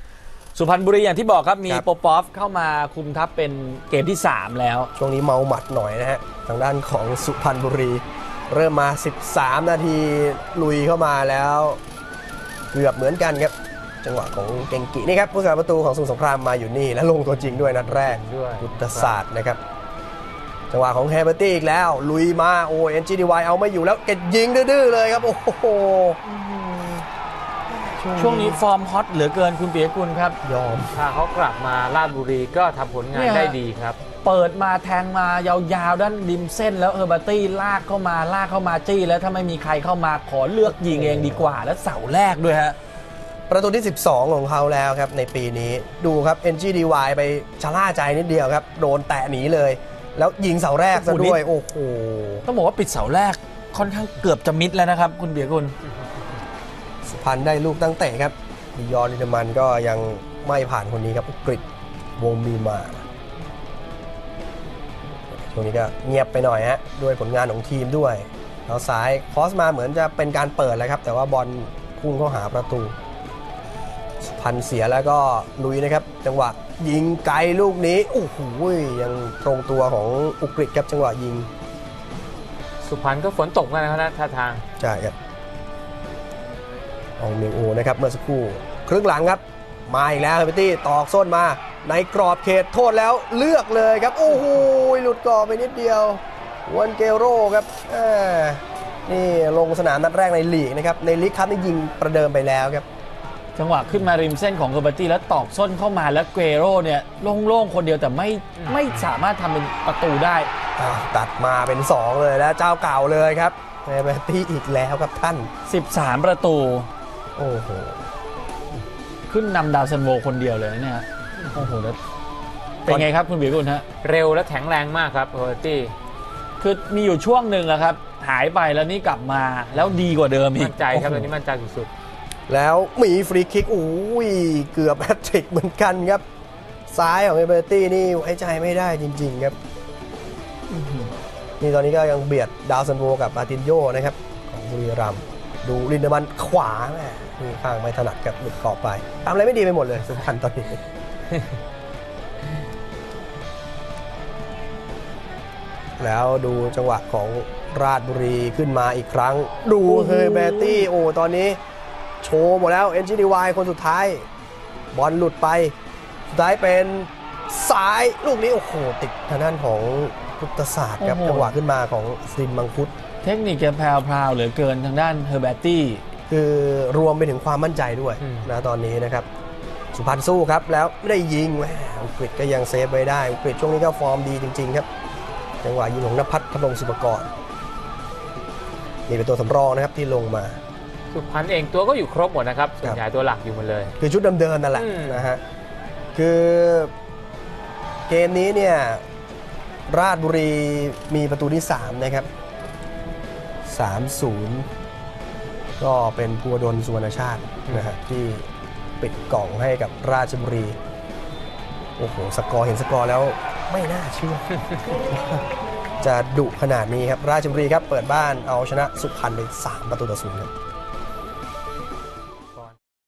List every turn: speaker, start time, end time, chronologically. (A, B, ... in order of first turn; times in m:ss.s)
0:00.6-0:04.9 A
0:05.0-0:11.8 B
0:12.7-0:19.6 B
0:17.7-0:19.1 C
0:20.7-0:26.8 B
0:27.7-0:28.6 B
0:28.2-0:30.4 A
0:30.4-0:31.0 B
0:31.0-0:34.0 C
0:33.1-0:33.6 A
0:34.2-0:42.8 A
0:40.6-0:41.6 B
0:43.5-0:52.5 B
0:50.9-0:51.4 A
0:52.5-0:55.8 A
0:57.0-1:01.6 B
1:02.2-1:03.0 B
1:05.3-1:13.0 B
1:14.2-1:21.5 B
1:22.8-1:24.6 C
1:24.8-1:25.2 B
1:27.2-1:42.9 B
1:43.6-1:50.5 A
1:48.6-1:49.1 C
1:50.8-1:55.5 B
1:55.7-1:56.9 A
1:57.4-1:58.0 B
1:59.3-2:02.0 A
2:02.8-2:03.9 A
2:04.0-2:05.9 C
2:06.6-2:11.3 A
2:10.6-2:11.9 C
2:12.5-2:16.2 B
2:16.9-2:19.6 B
2:20.7-2:21.1 A
2:21.6-2:30.8 B
2:36.0-2:41.6 B
2:39.8-2:40.9 A
2:42.2-2:44.3 B
2:44.9-2:45.7 B
2:46.3-2:52.9 B
2:51.0-2:51.5 A
2:53.2-2:56.0 A
2:56.3-2:59.3 B
2:58.2-2:58.5 C
2:59.9-3:04.9 B
3:05.6-3:07.3 B
3:09.1-3:10.6 B
3:11.1-3:13.9 C
3:14.0-3:15.4 B
3:14.8-3:15.3 C
3:16.2-3:16.9 B
3:18.1-3:19.0 B
3:19.9-3:22.3 B
3:23.7-3:24.7 B
3:25.8-3:28.5 B
3:27.7-3:27.9 C
3:29.0-3:30.8 B
3:32.0-3:35.5 B
3:36.0-3:40.5 B